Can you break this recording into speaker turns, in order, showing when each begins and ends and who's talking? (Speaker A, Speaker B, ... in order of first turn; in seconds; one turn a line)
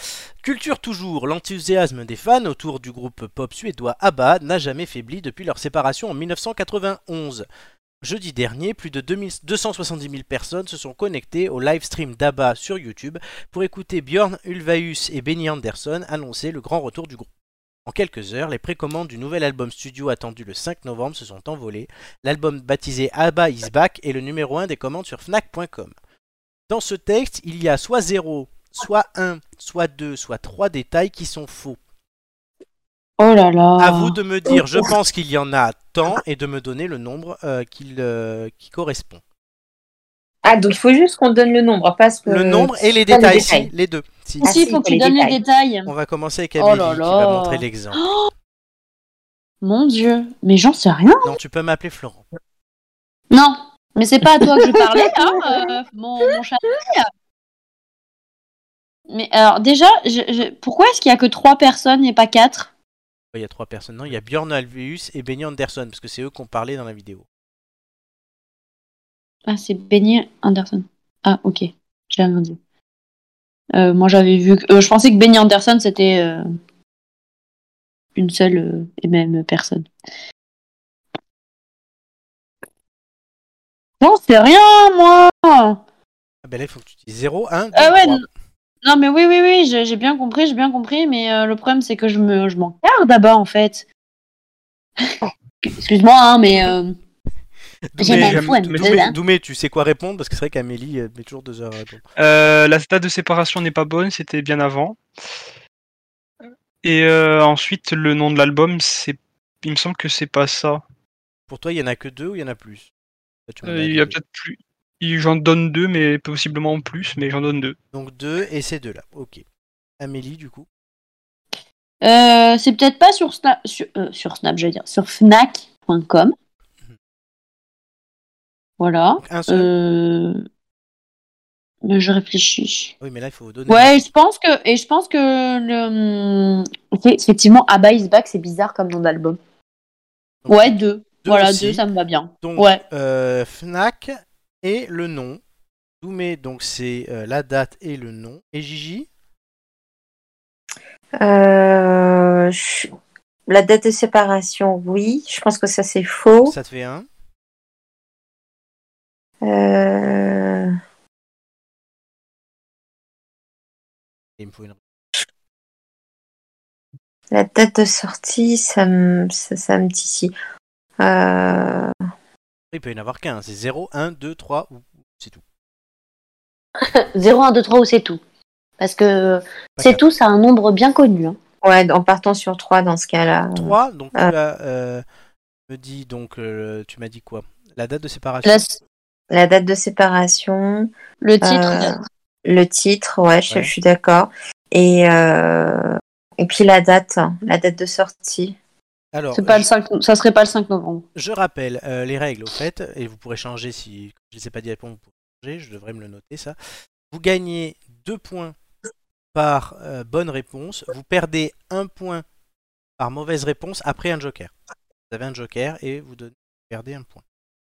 Speaker A: 0.4-7.5
Speaker A: 8.0-17.3
Speaker A: 17.9-25.9
Speaker A: 26.7-31.8
Speaker B: 33.2-34.1
Speaker A: 33.8-39.2
Speaker C: 40.4-43.7
Speaker A: 42.2-44.6
Speaker C: 44.4-45.4
Speaker B: 44.4-45.9
Speaker A: 45.9-48.1
Speaker B: 46.6-48.3
Speaker B: 49.6-51.3
Speaker A: 51.2-52.2
Speaker B: 53.3-57.1
Speaker B: 59.1-62.7
Speaker A: 63.3-67.2
Speaker B: 69.5-72.6
Speaker B: 73.7-76.4
Speaker B: 78.2-79.9
Speaker B: 84.0-85.8
Speaker A: 86.4-88.2
Speaker B: 87.7-88.2
Speaker B: 88.8-93.8
Speaker B: 95.6-96.9
Speaker A: 97.9-102.0
Speaker B: 98.0-99.2
Speaker D: 98.0-99.0
Speaker D: 102.2-105.0
Speaker D: 106.8-110.8
Speaker A: 111.5-112.9
Speaker A: 113.5-114.2
Speaker D: 113.6-117.8
Speaker A: 117.9-119.4
Speaker A: 120.0-120.7
Speaker B: 122.0-126.3
Speaker B: 128.8-130.4
Speaker A: 129.2-129.7
Speaker B: 131.8-132.9
Speaker A: 133.0-134.1
Speaker B: 133.7-139.4
Speaker A: 140.4-141.8
Speaker B: 140.5-142.8
Speaker A: 142.4-145.4
Speaker A: 146.0-149.1
Speaker C: 151.2-152.9
Speaker C: 153.5-156.5
Speaker A: 156.4-157.1
Speaker C: 159.4-160.7
Speaker A: 164.4-164.8
Speaker C: 167.3-170.3
Speaker C: 171.0-171.9
Speaker A: 172.7-175.4
Speaker B: 176.9-178.2
Speaker B: 178.8-181.4
Speaker A: 179.8-180.0
Speaker C: 181.6-184.3
Speaker A: 183.5-185.0
Speaker A: 185.7-188.7
Speaker B: 188.4-188.8
Speaker C: 189.3-190.9
Speaker B: 191.2-191.9
Speaker C: 191.4-198.6
Speaker A: 199.1-199.7
Speaker B: 199.3-201.0
Speaker A: 201.1-206.5
Speaker A: 207.1-208.6
Speaker A: 209.3-212.2
Speaker A: 213.0-214.5
Speaker A: 215.1-217.2